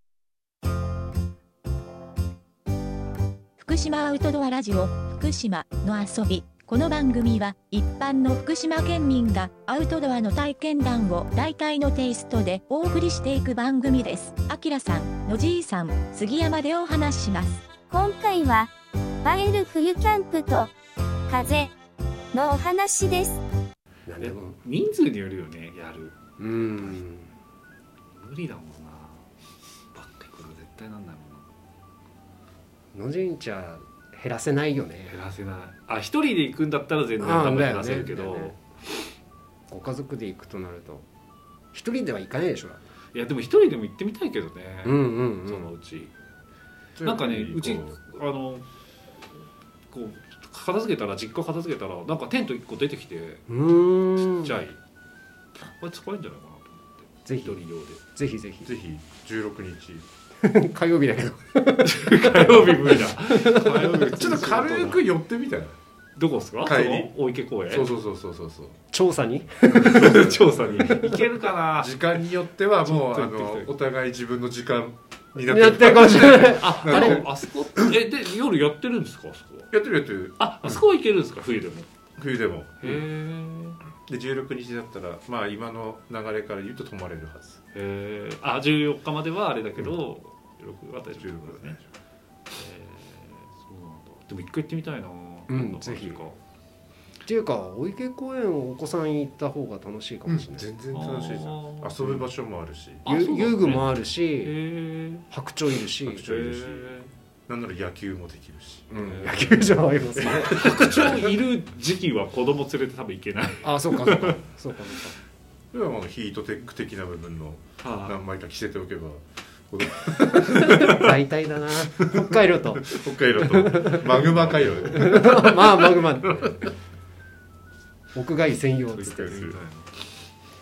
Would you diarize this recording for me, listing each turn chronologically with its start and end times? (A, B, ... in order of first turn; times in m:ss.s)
0:03.6-0:17.7 A
0:17.9-0:18.7 B
0:19.2-0:20.7 B
0:21.3-0:21.7 B
0:22.3-0:23.4 B
0:24.1-0:24.6 C
0:24.2-0:26.2 D
0:26.4-0:27.3 C
0:28.1-0:29.3 D
0:29.9-0:31.5 D
0:32.9-0:35.1 C
0:35.1-0:38.6 D
0:37.2-0:38.5 C
0:39.7-0:41.0 C
0:41.7-0:42.8 C
0:43.1-0:46.1 D
0:44.8-0:45.7 C
0:47.0-0:48.0 E
0:47.0-0:48.7 D
0:49.9-0:53.4 D
0:53.5-0:54.6 C
0:54.4-0:54.8 D
0:55.6-0:58.1 D
0:57.2-0:58.7 C
0:58.6-1:00.0 E
1:00.4-1:04.2 C
1:01.8-1:05.0 D
1:04.0-1:05.7 E
1:06.2-1:07.9 D
1:06.6-1:07.1 E
1:07.7-1:08.8 E
1:08.9-1:10.3 C
1:09.7-1:11.0 E
1:09.8-1:12.2 D
1:11.8-1:17.9 E
1:12.9-1:13.7 D
1:15.4-1:17.3 C
1:16.6-1:19.7 D
1:19.7-1:20.8 E
1:20.4-1:21.9 D
1:22.2-1:23.0 E
1:22.8-1:23.8 D
1:24.1-1:27.6 E
1:27.7-1:31.8 D
1:31.1-1:31.9 E
1:32.5-1:36.4 D
1:35.5-1:36.2 C
1:37.2-1:40.7 C
1:40.3-1:43.1 E
1:40.9-1:42.2 D
1:43.0-1:44.6 C
1:43.1-1:47.1 D
1:45.3-1:46.8 C
1:47.5-1:48.9 E
1:48.9-1:51.0 C
1:49.0-1:49.9 D
1:50.2-1:51.4 E
1:50.5-1:54.4 D
1:53.6-1:55.2 C
1:55.7-2:01.1 E
1:57.8-1:58.2 D
2:00.5-2:06.7 C
2:02.9-2:06.7 E
2:08.1-2:09.5 C
2:08.9-2:09.9 D